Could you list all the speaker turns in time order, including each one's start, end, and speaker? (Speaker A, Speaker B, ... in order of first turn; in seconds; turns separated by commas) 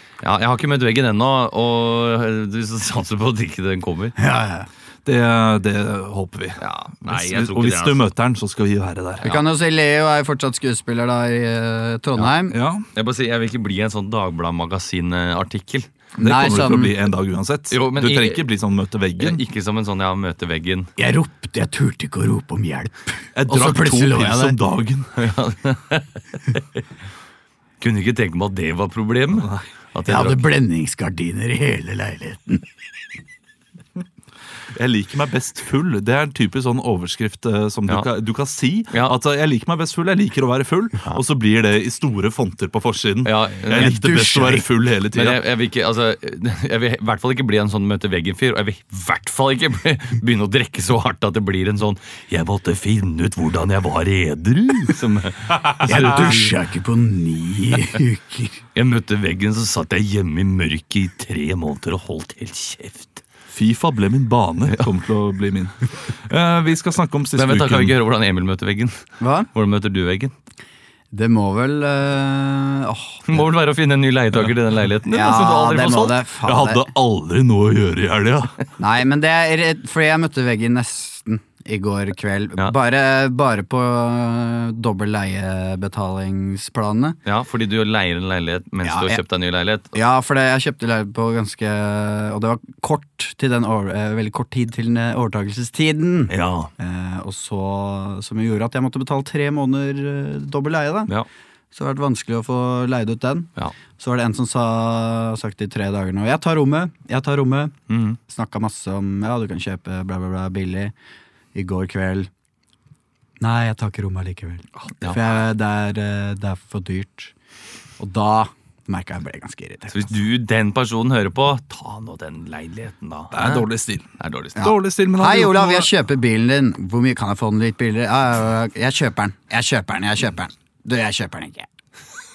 Speaker A: 0.2-4.2, Speaker B: 4.2-4.7, Speaker C: 5.0-9.3, Speaker A: 6.6-8.1, Speaker B: 9.2-12.6, Speaker C: 12.5-12.9, Speaker A: 12.9-15.9, Speaker B: 16.2-17.0, Speaker C: 16.2-19.4, Speaker A: 17.7-18.4, Speaker A: 19.2-20.9, Speaker B: 21.0-24.6, Speaker C: 23.4-25.2, Speaker A: 25.2-26.6, Speaker A: 27.8-30.4, Speaker C: 29.4-29.7, Speaker B: 30.1-32.7, Speaker C: 34.7-45.4, Speaker A: 43.2-44.0, Speaker B: 43.7-44.7, Speaker A: 45.1-56.5, Speaker B: 55.9-58.6, Speaker A: 58.8-63.2, Speaker C: 63.5-68.0, Speaker A: 67.4-70.3, Speaker B: 69.2-69.5, Speaker B: 71.1-73.5, Speaker A: 73.3-76.2, Speaker B: 75.1-76.9, Speaker C: 76.4-78.5, Speaker B: 78.8-87.2, Speaker A: 87.3-90.0, Speaker B: 88.8-89.2, Speaker B: 89.9-101.1, Speaker A: 96.3-96.7, Speaker B: 101.7-107.8, Speaker A: 107.9-108.2, Speaker B: 108.3-110.9, Speaker B: 111.5-112.3, Speaker B: 113.4-117.3, Speaker B: 118.0-120.1, Speaker A: 119.9-123.7, Speaker C: 123.3-125.9, Speaker A: 124.2-124.7, Speaker B: 124.6-131.7